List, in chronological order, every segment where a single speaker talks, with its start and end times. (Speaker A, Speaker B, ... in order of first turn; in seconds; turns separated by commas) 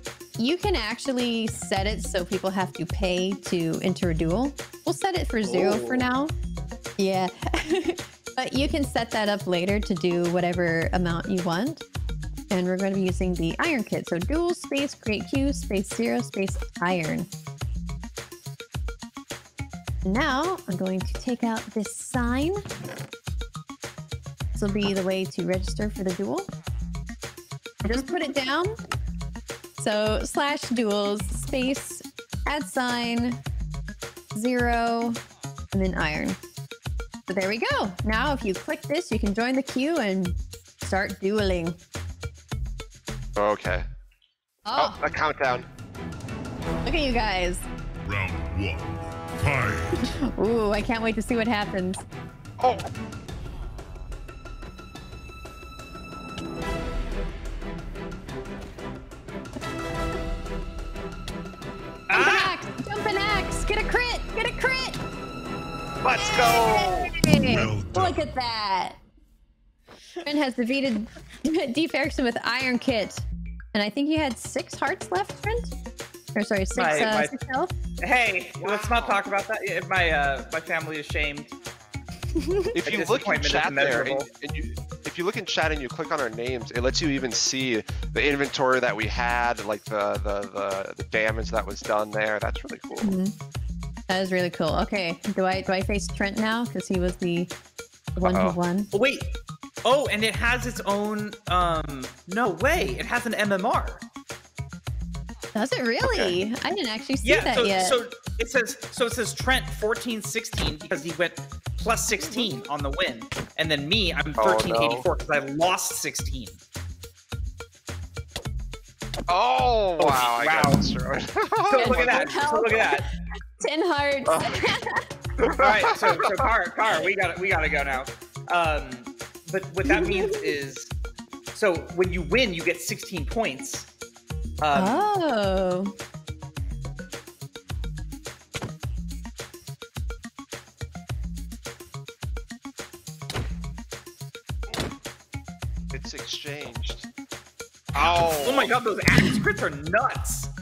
Speaker A: 0.4-6.3, Speaker B: 5.4-6.1, Speaker A: 7.0-11.8, Speaker A: 12.5-17.3, Speaker A: 20.1-22.6, Speaker A: 24.6-26.5, Speaker A: 27.9-28.7, Speaker A: 29.8-33.4, Speaker A: 34.3-35.2, Speaker A: 35.7-36.4, Speaker A: 37.3-41.8, Speaker C: 43.4-43.9, Speaker A: 44.7-45.0, Speaker C: 44.8-45.7, Speaker A: 46.8-47.6, Speaker D: 48.0-50.0, Speaker A: 50.1-52.0, Speaker C: 52.6-52.9, Speaker B: 62.1-62.6, Speaker A: 62.1-65.0, Speaker C: 66.0-67.1, Speaker A: 66.2-69.0, Speaker D: 67.4-68.2, Speaker A: 70.2-75.7, Speaker A: 76.3-77.7, Speaker B: 76.8-77.4, Speaker B: 78.0-81.5, Speaker C: 78.6-79.2, Speaker A: 82.3-82.8, Speaker C: 82.8-93.2, Speaker B: 82.8-84.3, Speaker A: 93.0-93.3, Speaker A: 94.1-97.5, Speaker A: 98.2-98.9, Speaker C: 98.2-98.6, Speaker B: 98.9-99.3, Speaker B: 99.8-104.0, Speaker A: 105.5-108.0, Speaker C: 106.0-106.4, Speaker B: 107.2-116.6, Speaker C: 114.4-115.1, Speaker C: 119.3-122.3, Speaker B: 120.0-120.8, Speaker B: 121.7-123.1, Speaker A: 121.7-123.1, Speaker A: 123.6-125.0, Speaker C: 124.3-124.6, Speaker C: 125.4-126.4, Speaker B: 125.6-130.9, Speaker A: 129.8-130.5, Speaker B: 131.5-133.9, Speaker B: 134.6-135.1, Speaker A: 134.7-135.9, Speaker C: 145.9-147.1, Speaker C: 147.9-148.8, Speaker B: 147.9-150.5